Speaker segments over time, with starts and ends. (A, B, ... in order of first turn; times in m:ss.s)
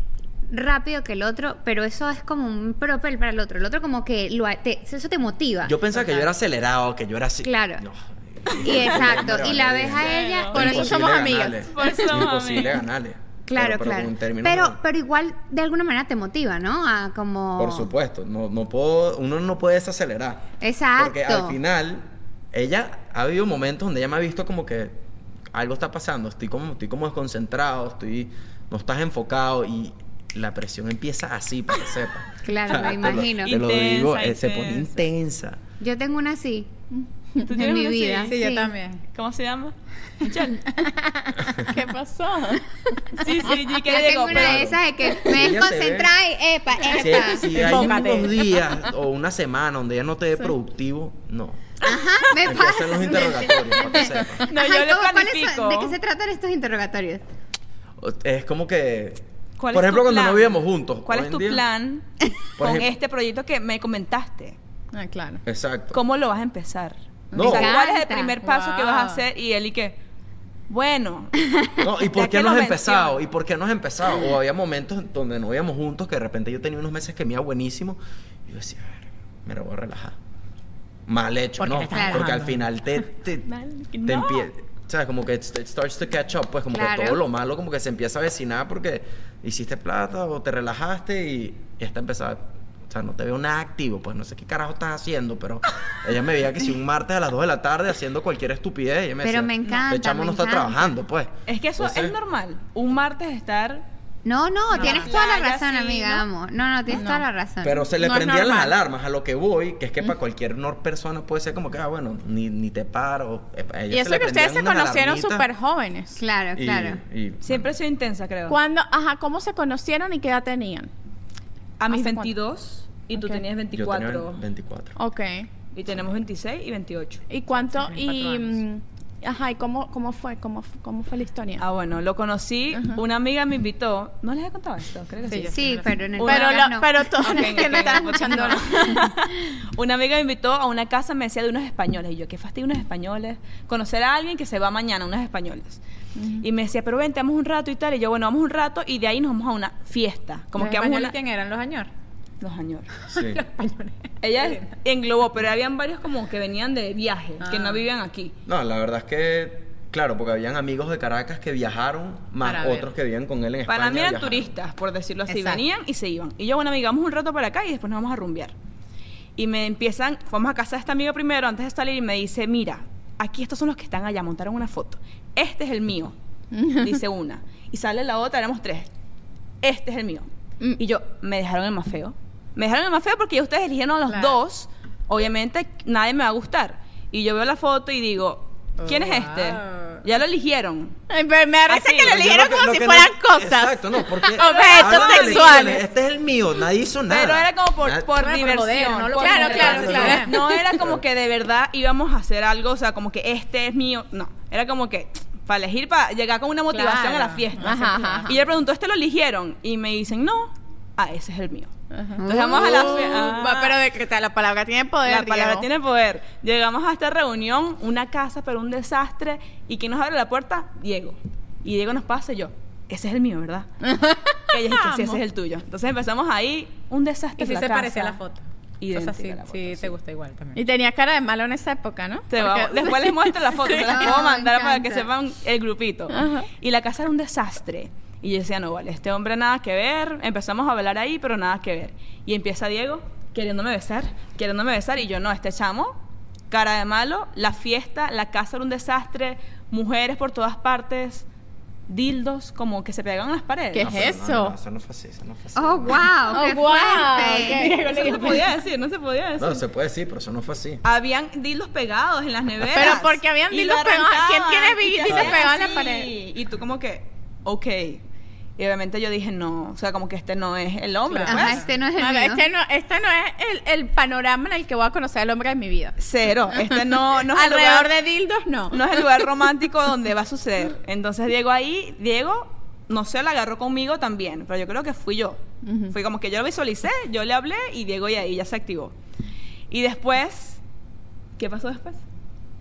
0:00.5-0:06.3 A
0:05.6-0:14.8 B
0:07.4-0:07.8 A
0:08.6-0:11.0 A
0:10.0-0:10.6 C
0:10.5-0:12.2 D
0:11.7-0:12.8 C
0:13.5-0:17.9 A
0:17.6-0:25.0 B
0:20.6-0:21.6 A
0:25.5-0:35.6 B
0:32.4-0:33.5 A
0:33.0-0:35.0 C
0:35.8-0:36.7 A
0:36.9-0:37.5 D
0:37.4-0:38.3 C
0:37.5-0:38.7 A
0:38.3-0:39.0 E
0:39.1-0:40.6 C
0:40.8-0:41.5 E
0:41.7-0:42.6 D
0:43.2-0:44.7 C
0:43.9-0:47.7 A
0:44.2-0:46.1 B
0:46.8-0:48.5 D
0:46.9-0:51.8 B
0:47.6-0:48.2 E
0:51.8-0:57.2 A
0:52.4-0:54.4 B
0:54.5-0:56.0 C
0:58.0-1:01.6 B
0:59.6-1:02.0 C
1:02.6-1:02.9 B
1:02.6-1:04.6 C
1:04.9-1:05.4 D
1:05.4-1:06.0 B
1:05.9-1:10.0 C
1:07.3-1:07.7 B
1:07.4-1:08.4 A
1:08.6-1:09.0 D
1:10.7-1:11.5 C
1:11.8-1:20.2 B
1:12.0-1:13.2 C
1:21.1-1:23.4 B
1:21.8-1:22.5 E
1:21.9-1:22.3 A
1:23.4-1:24.5 C
1:24.0-1:42.2 B
1:26.7-1:27.2 A
1:39.2-1:40.9 A
1:41.5-1:43.8 C
1:44.2-1:47.9 A
1:44.8-1:45.0 E
1:44.8-1:46.3 C
1:46.9-1:47.2 D
1:47.6-1:55.4 B
1:48.0-1:48.7 D
1:53.9-1:56.2 D
1:56.2-1:57.0 A
1:56.5-1:57.7 B
1:57.4-1:58.6 C
1:58.5-2:00.9 D
2:01.8-2:04.4 C
2:01.9-2:02.3 D
2:03.1-2:03.4 D
2:03.7-2:04.9 B
2:05.0-2:05.5 D
2:05.7-2:07.2 C
2:07.3-2:11.6 D
2:07.7-2:08.6 E
2:11.6-2:15.6 C
2:15.3-2:16.0 E
2:15.5-2:18.0 A
2:16.2-2:16.6 C
2:16.2-2:19.0 D
2:17.2-2:25.8 C
2:26.2-2:26.4 D
2:26.4-2:31.1 C
2:30.6-2:31.9 E
2:32.4-2:32.9 C
2:33.1-2:33.4 B
2:33.1-2:34.7 E
2:34.2-2:38.3 C
2:37.4-2:37.8 E
2:38.4-2:44.5 B
2:42.4-2:42.9 E
2:43.7-2:48.5 C
2:45.3-2:45.6 E
2:49.4-2:56.1 C
2:56.5-2:57.0 D
2:56.7-2:58.9 C
2:59.6-3:11.0 C
3:04.1-3:04.3 E
3:08.8-3:10.0 E
3:11.1-3:15.8 D
3:11.7-3:12.2 C
3:12.0-3:18.1 B
3:14.4-3:15.8 C
3:17.1-3:33.8 C
3:18.1-3:20.3 E
3:19.2-3:20.6 D
3:19.7-3:20.1 B
3:26.7-3:28.4 E
3:27.6-3:28.3 D
3:31.9-3:35.7 D
3:32.2-3:33.2 A
3:35.0-3:43.7 C
3:43.8-3:45.2 D
3:44.5-3:48.2 C
3:47.4-3:50.6 E
3:48.8-3:49.9 C
3:50.5-3:54.1 D
3:52.3-4:05.9 C
3:53.8-3:55.1 A
3:56.1-3:56.5 D
4:06.5-4:11.2 C
4:11.9-4:13.9 C
4:13.7-4:14.5 D
4:13.8-4:16.4 B
4:15.6-4:17.9 A
4:16.3-4:18.4 D
4:17.6-4:19.6 C
4:19.4-4:20.8 B
4:20.8-4:28.0 C
4:22.6-4:26.1 D
4:25.0-4:25.4 B
4:28.6-4:31.6 C
4:31.1-4:31.6 E
4:31.2-4:32.5 A
4:31.9-4:36.0 D
4:36.0-4:37.9 C
4:36.6-4:39.2 D
4:38.7-4:48.9 C
4:45.6-4:46.0 D
4:49.7-4:50.6 C
4:51.4-4:52.0 C